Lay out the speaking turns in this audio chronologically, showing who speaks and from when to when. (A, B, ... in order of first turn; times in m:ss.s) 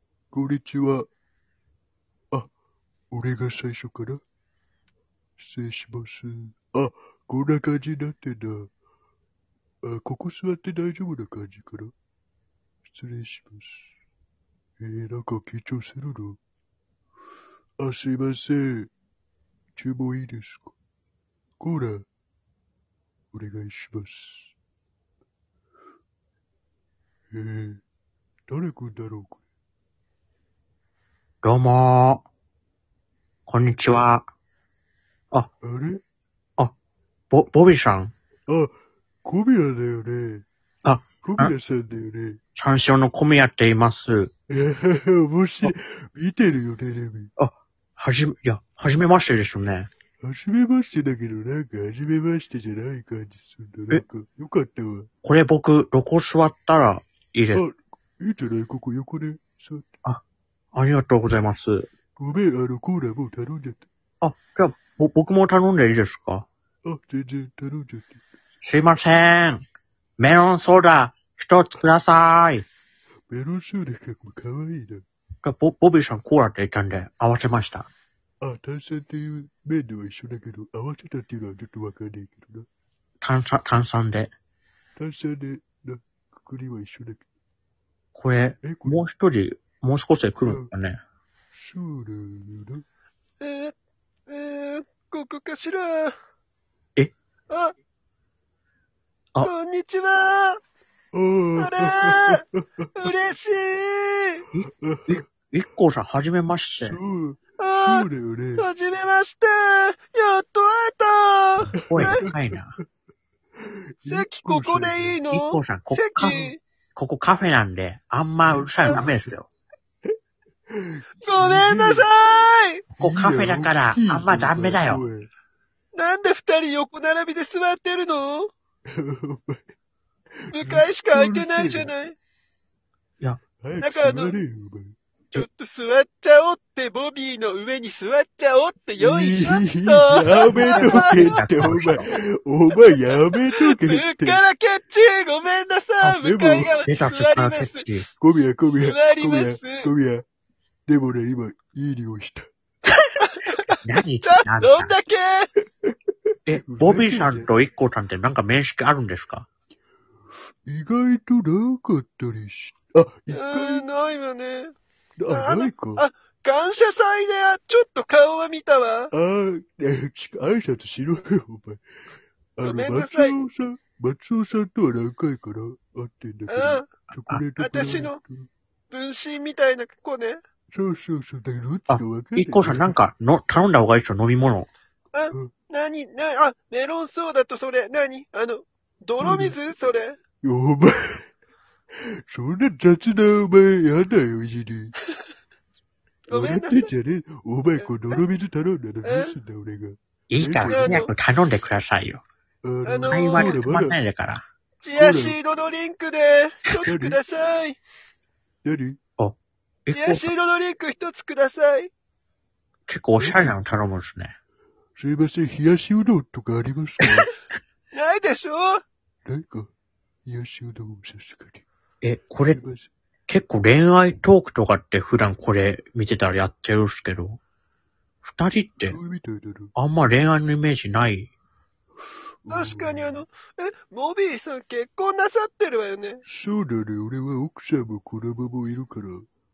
0:00.3-0:01.0 A
0:03.1-0:04.2 A
0:05.4-0:08.7 A
0:09.8-0:11.9 A
0:12.8-0:13.9 A
0:14.8-0:16.4 A
0:17.8-0:18.9 A
0:19.8-0:20.7 A
0:21.6-0:22.0 A
0:23.3-0:24.5 A
0:27.3-0:27.8 A
0:28.5-0:29.4 A
0:31.4-0:32.2 B
0:33.5-0:34.2 B
0:35.6-0:36.0 A
0:37.3-0:38.1 B
0:39.2-0:40.4 A
0:40.8-0:41.5 B
0:41.2-0:42.4 A
0:42.6-0:44.3 B
0:44.5-0:47.3 A
0:47.4-0:49.9 B
0:50.2-0:55.1 A
0:55.2-0:57.6 B
0:57.5-1:00.0 A
1:00.7-1:01.9 B
1:02.2-1:03.9 A
1:04.2-1:06.4 B
1:06.9-1:08.2 A
1:08.6-1:09.6 B
1:10.2-1:12.6 B
1:13.3-1:15.0 A
1:15.4-1:17.9 B
1:18.4-1:22.6 A
1:23.2-1:24.3 B
1:25.0-1:27.3 A
1:28.1-1:31.0 B
1:28.6-1:29.0 A
1:31.5-1:32.8 A
1:33.4-1:33.7 C
1:34.3-1:36.1 C
1:39.4-1:40.6 C
1:41.1-1:42.6 A
1:41.6-1:42.4 C
1:43.0-1:44.4 C
1:44.5-1:47.0 B
1:44.8-1:45.2 A
1:46.8-1:48.6 A
1:47.6-1:48.0 C
1:48.6-1:52.2 C
1:51.8-1:52.2 A
1:51.8-1:52.7 B
1:54.0-1:55.2 A
1:54.1-1:56.6 C
1:55.3-1:56.4 B
1:56.2-1:56.5 A
1:57.0-1:59.5 B
1:58.5-1:59.3 A
2:00.7-2:02.1 A
2:01.2-2:02.8 C
2:02.9-2:05.3 A
2:03.0-2:05.0 B
2:05.9-2:08.5 C
2:08.9-2:09.6 A
2:10.5-2:11.9 A
2:10.5-2:12.1 C
2:13.6-2:14.9 A
2:13.8-2:14.3 C
2:15.3-2:21.4 C
2:19.0-2:24.4 A
2:20.4-2:22.0 B
2:23.6-2:27.8 C
2:26.2-2:26.8 A
2:26.6-2:28.1 B
2:28.2-2:30.2 A
2:28.8-2:29.9 C
2:30.9-2:32.4 A
2:33.2-2:35.5 C
2:33.8-2:34.9 B
2:36.5-2:39.4 B
2:36.6-2:37.5 A
2:40.7-2:43.8 A
2:43.3-2:44.7 C
2:45.2-2:46.0 A
2:45.3-2:49.1 C
2:49.1-2:51.8 A
2:52.6-2:58.5 A
2:52.6-2:53.4 C
2:56.5-2:56.8 C
2:57.6-2:58.2 C
2:58.9-3:00.4 C
3:00.7-3:03.0 A
3:01.9-3:04.7 B
3:05.1-3:10.2 C
3:09.2-3:09.5 A
3:10.4-3:11.2 A
3:12.0-3:14.9 A
3:16.3-3:16.9 C
3:16.3-3:21.0 A
3:19.0-3:19.3 C
3:20.3-3:22.2 B
3:20.7-3:21.1 C
3:22.6-3:23.9 A
3:22.8-3:23.6 C
3:23.1-3:24.4 B
3:24.8-3:27.8 C
3:24.9-3:25.4 A
3:26.8-3:27.2 A
3:28.6-3:29.0 A
3:29.9-3:30.3 B
3:29.9-3:31.9 C
3:32.9-3:34.3 B
3:33.2-3:33.5 A
3:35.0-3:37.3 A
3:37.9-3:38.8 C
3:39.3-3:39.7 A
3:40.3-3:41.6 A
3:42.0-3:42.6 B
3:42.5-3:42.9 A
3:43.3-3:47.4 B
3:48.2-3:49.0 B
3:48.8-3:49.7 A
3:49.8-3:51.3 B
3:52.4-3:53.2 A
3:52.5-3:56.2 C
3:56.2-3:59.2 A